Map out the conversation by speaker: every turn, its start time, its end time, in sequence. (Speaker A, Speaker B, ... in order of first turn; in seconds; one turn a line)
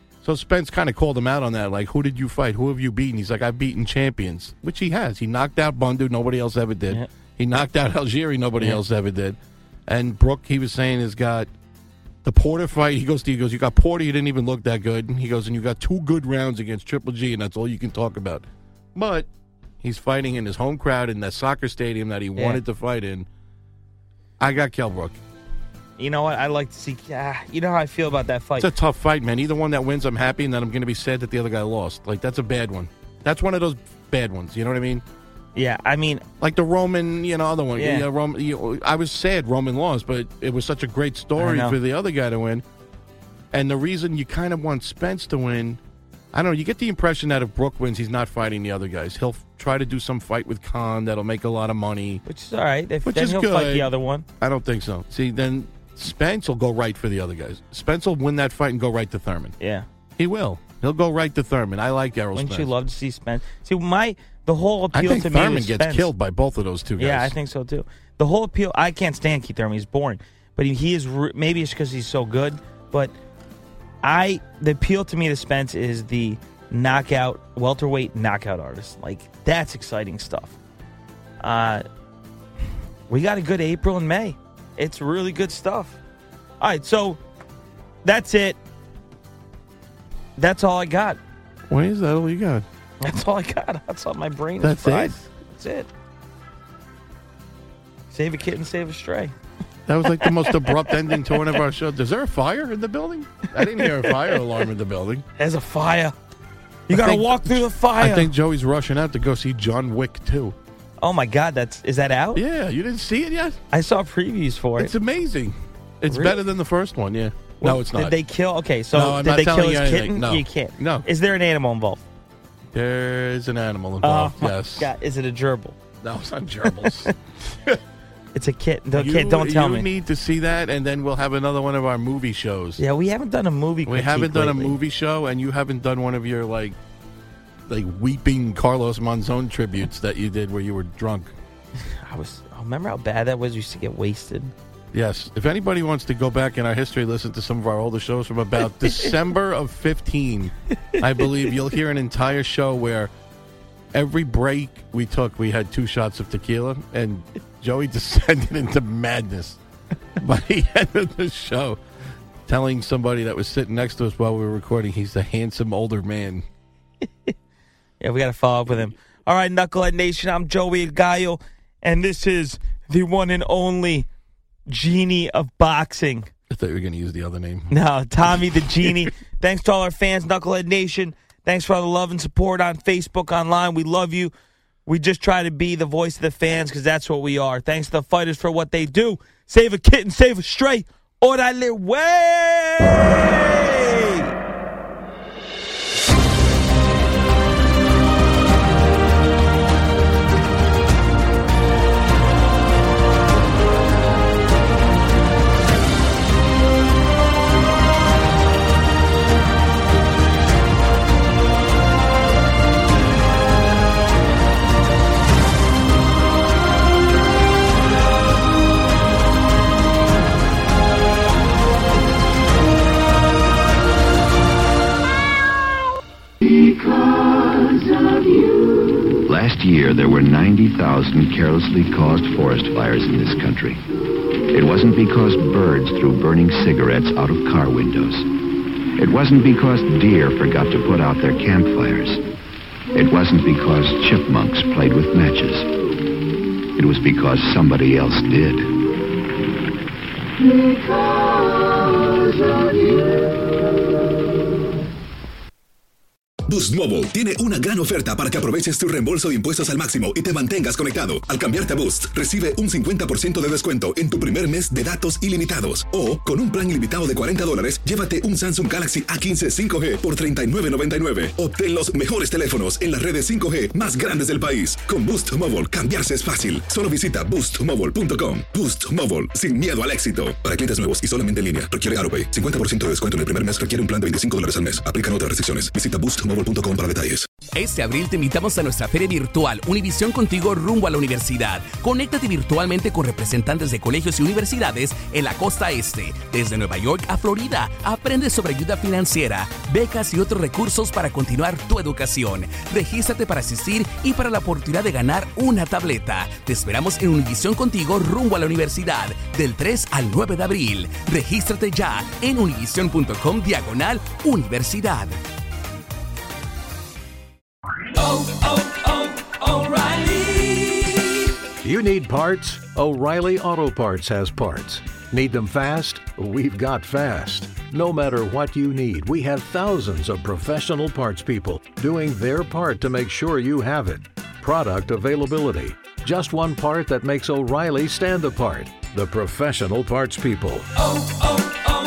Speaker A: 0.2-11.5
Speaker A: 12.2-19.3
Speaker A: 19.8-23.3
Speaker B: 22.4-22.6
Speaker A: 24.4-25.2
Speaker B: 26.0-28.7
Speaker A: 28.6-35.0
Speaker B: 35.5-36.2
Speaker A: 36.4-42.6
Speaker B: 37.8-38.1
Speaker B: 41.4-41.8
Speaker A: 43.5-45.8
Speaker A: 46.3-52.2
Speaker B: 52.3-54.3
Speaker A: 53.0-59.5
Speaker B: 59.6-59.9
Speaker A: 60.2-62.7
Speaker B: 62.4-66.1
Speaker A: 64.9-67.3
Speaker B: 67.0-73.1
Speaker B: 74.0-80.6
Speaker B: 81.4-81.8
Speaker B: 83.1-86.0
Speaker B: 86.6-87.2
Speaker B: 88.0-88.6
Speaker B: 90.4-91.2
Speaker A: 91.7-92.7
Speaker B: 93.0-95.9
Speaker A: 94.6-95.3
Speaker B: 98.1-99.3
Speaker A: 99.9-105.3
Speaker B: 100.1-101.6
Speaker B: 103.5-104.4
Speaker B: 105.4-106.2
Speaker B: 106.9-108.3
Speaker A: 106.9-110.6
Speaker B: 111.0-112.4
Speaker A: 112.3-113.6
Speaker B: 113.7-114.9
Speaker A: 114.8-118.2
Speaker B: 116.1-116.4
Speaker B: 117.6-122.0
Speaker A: 118.9-121.1
Speaker A: 122.7-124.9
Speaker B: 124.0-125.8
Speaker A: 126.0-127.8
Speaker B: 126.7-127.1
Speaker B: 128.3-129.9
Speaker A: 128.9-132.8
Speaker B: 132.8-134.8
Speaker A: 133.9-136.8
Speaker A: 137.7-141.3
Speaker B: 141.8-144.5
Speaker A: 144.9-153.1
Speaker A: 153.9-159.6
Speaker A: 160.2-161.8
Speaker A: 162.5-166.4
Speaker B: 168.0-174.1
Speaker B: 174.7-176.3
Speaker A: 176.5-179.1
Speaker B: 177.7-184.3
Speaker B: 184.9-194.4
Speaker C: 229.2-233.8
Speaker C: 234.5-238.3
Speaker C: 239.0-242.2
Speaker C: 242.9-245.7
Speaker C: 246.8-248.7
Speaker D: 256.5-287.3
Speaker E: 287.5-315.2
Speaker B: 319.6-320.1
Speaker F: 321.6-340.7
Speaker B: 341.2-341.6